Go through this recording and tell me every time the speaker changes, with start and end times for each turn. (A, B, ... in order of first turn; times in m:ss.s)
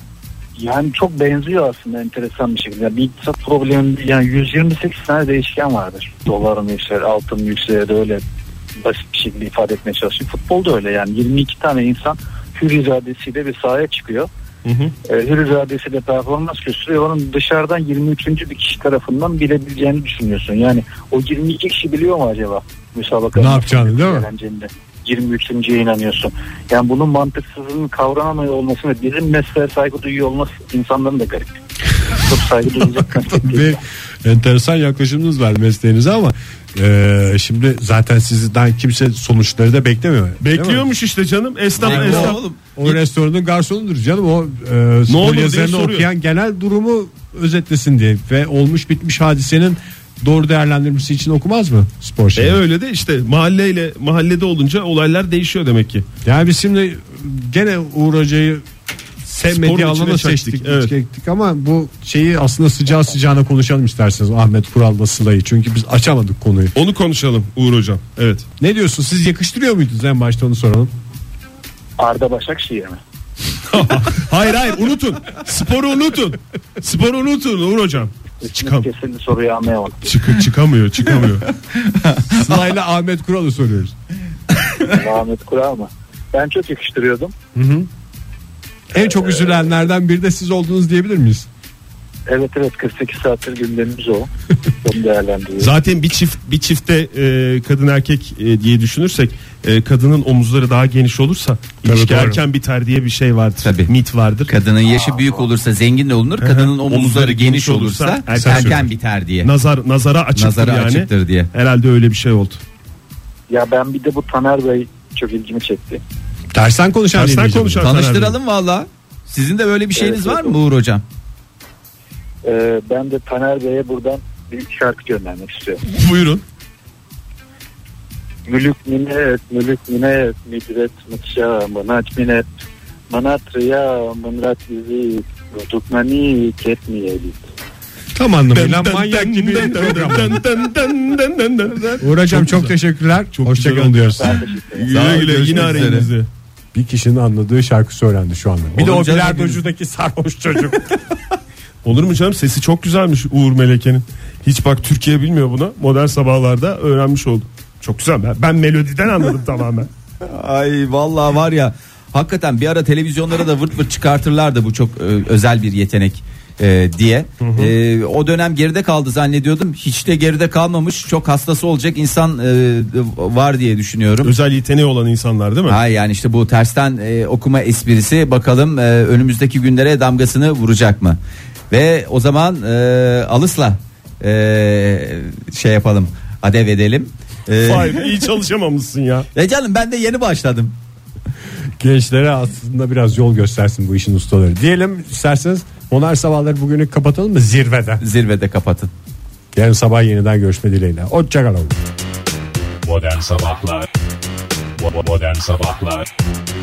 0:00.6-0:08.2 A
0:08.8-0:14.3 A
0:14.6-0:14.9 B
0:15.0-0:31.6 A
0:23.4-0:24.3 C
0:32.1-0:33.8 A
0:33.4-0:40.8 C
0:40.4-0:42.4 B
0:41.8-0:43.0 D
0:41.8-0:52.6 C
0:45.1-0:46.1 B
0:52.4-0:56.0 B
0:56.2-0:58.6 C
0:59.2-1:06.7 C
0:59.5-1:00.9 B
1:06.8-1:08.5 B
1:08.6-1:10.9 C
1:12.0-1:13.0 A
1:13.7-1:18.9 B
1:18.4-1:20.0 A
1:20.0-1:21.5 B
1:21.9-1:22.4 D
1:22.3-1:24.0 C
1:24.8-1:27.3 A
1:27.6-1:27.9 C
1:28.9-1:31.5 C
1:32.3-1:34.3 A
1:34.8-1:35.7 A
1:35.6-1:44.5 B
1:41.8-1:42.4 C
1:43.6-1:43.9 D
1:44.5-1:49.5 D
1:44.8-1:45.5 A
1:46.4-1:48.9 B
1:48.3-1:48.8 C
1:49.4-1:52.6 B
1:50.4-1:51.5 D
1:53.5-1:56.0 A
1:56.5-1:57.9 C
1:57.1-1:58.4 B
1:57.8-2:01.0 D
2:00.0-2:00.6 A
2:02.4-2:05.8 A
2:05.9-2:06.4 B
2:08.5-2:12.5 A
2:13.1-2:17.4 A
2:18.2-2:20.4 C
2:18.5-2:22.8 B
2:22.0-2:24.4 C
2:23.3-2:26.3 B
2:24.2-2:25.1 A
2:24.9-2:26.1 D
2:25.4-2:25.9 C
2:26.7-2:30.9 C
2:28.8-2:29.6 D
2:31.8-2:39.9 B
2:40.2-2:54.3 D
2:47.4-2:47.7 B
2:54.2-2:55.8 B
2:55.7-3:01.2 D
3:01.7-3:08.0 D
3:07.6-3:09.3 B
3:09.4-3:10.8 D
3:11.8-3:18.0 C
3:18.0-3:18.9 D
3:19.5-3:21.8 C
3:22.8-3:23.9 E
3:24.8-3:26.1 E